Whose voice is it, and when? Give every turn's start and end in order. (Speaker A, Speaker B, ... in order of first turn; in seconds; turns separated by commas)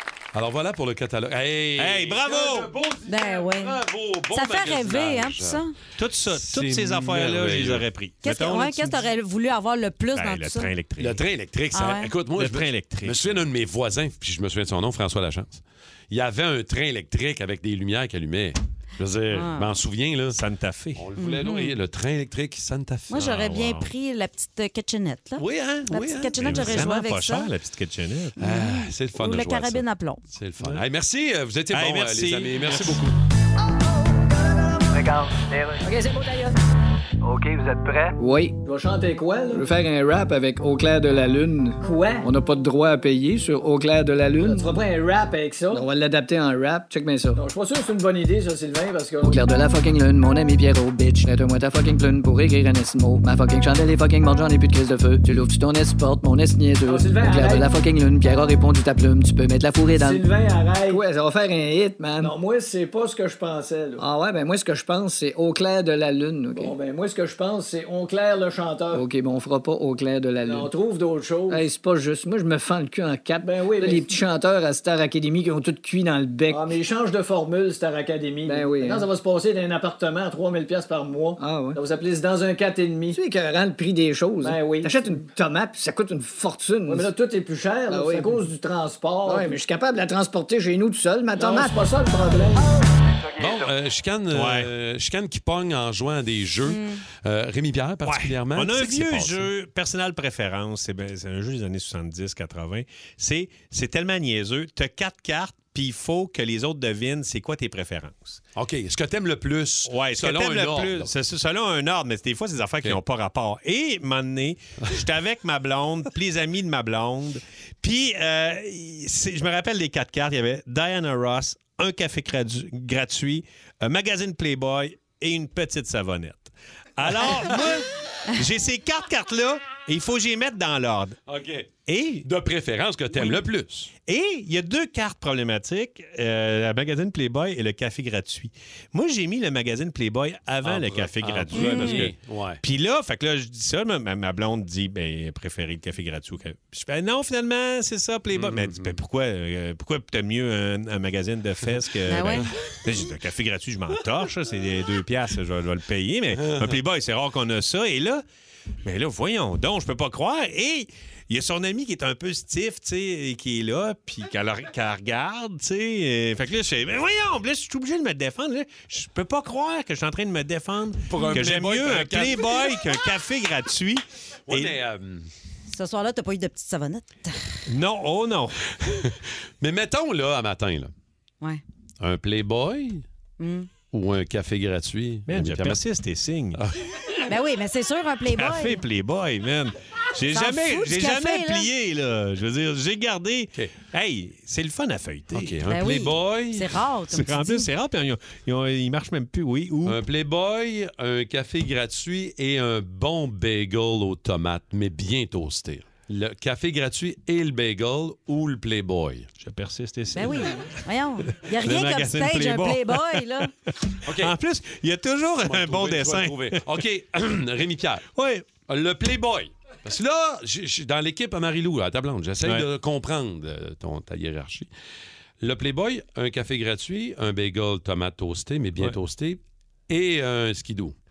Speaker A: 0.3-5.6, Speaker B: 1.8-2.7, Speaker C: 3.0-3.8, Speaker C: 4.3-5.7, Speaker B: 6.0-9.1, Speaker A: 6.3-7.8, Speaker C: 8.2-10.7, Speaker B: 10.1-11.2, Speaker A: 11.0-20.4, Speaker C: 11.7-12.1, Speaker B: 12.3-13.4, Speaker C: 19.3-19.7, Speaker B: 20.3-21.0, Speaker A: 20.9-23.2, Speaker C: 21.2-21.7, Speaker C: 23.1-27.5, Speaker B: 23.1-23.9, Speaker A: 25.4-26.9, Speaker B: 25.4-28.4, Speaker C: 28.4-30.2, Speaker A: 28.4-33.1, Speaker B: 31.7-33.1, Speaker D: 34.9-36.5, Speaker D: 37.2-38.6, Speaker E: 38.6-39.6, Speaker D: 39.5-44.9, Speaker E: 44.4-45.8, Speaker D: 45.7-47.4, Speaker E: 47.4-49.4, Speaker D: 49.2-60.2, Speaker E: 56.9-57.7, Speaker E: 60.0-61.0, Speaker D: 60.8-62.3, Speaker E: 62.2-64.0, Speaker D: 64.0-66.7, Speaker E: 66.5-69.0, Speaker D: 68.9-70.7, Speaker E: 70.4-71.6, Speaker D: 71.5-76.7, Speaker E: 73.4-74.0, Speaker E: 76.5-83.2, Speaker D: 78.5-79.1, Speaker D: 81.4-81.8, Speaker D: 83.1-87.1, Speaker E: 84.4-84.9, Speaker E: 86.9-89.6, Speaker D: 87.9-88.5, Speaker D: 89.2-91.9, Speaker E: 91.4-92.7, Speaker A: 93.4-99.5, Speaker B: 94.3-94.7, Speaker C: 96.6-97.0, Speaker B: 98.0-108.4, Speaker A: 108.5-111.1, Speaker B: 109.8-131.2, Speaker A: 131.3-131.7, Speaker B: 131.8-132.2, Speaker A: 132.2-133.9, Speaker B: 134.0-158.2, Speaker A: 140.6-142.6, Speaker C: 141.5-142.1, Speaker A: 148.3-148.9, Speaker C: 152.1-152.5, Speaker B: 158.8-174.8, Speaker A: 171.1-172.9, Speaker A: 174.5-175.3, Speaker C: 175.7-177.4, Speaker B: 177.7-178.6, Speaker A: 178.8-180.9, Speaker A: 182.0-183.0, Speaker C: 183.4-183.7, Speaker A: 183.9-185.8, Speaker B: 185.3-186.6, Speaker A: 186.6-186.8, Speaker C: 187.3-188.8, Speaker B: 188.3-195.9, Speaker C: 190.3-191.7, Speaker A: 195.3-196.8, Speaker C: 195.7-197.7, Speaker B: 197.1-200.0, Speaker A: 199.8-209.3, Speaker B: 209.4-216.7, Speaker C: 210.1-213.5, Speaker A: 214.1-214.3, Speaker A: 215.4-218.1, Speaker B: 218.2-218.5, Speaker A: 218.7-224.7, Speaker B: 222.4-222.7, Speaker A: 225.4-230.9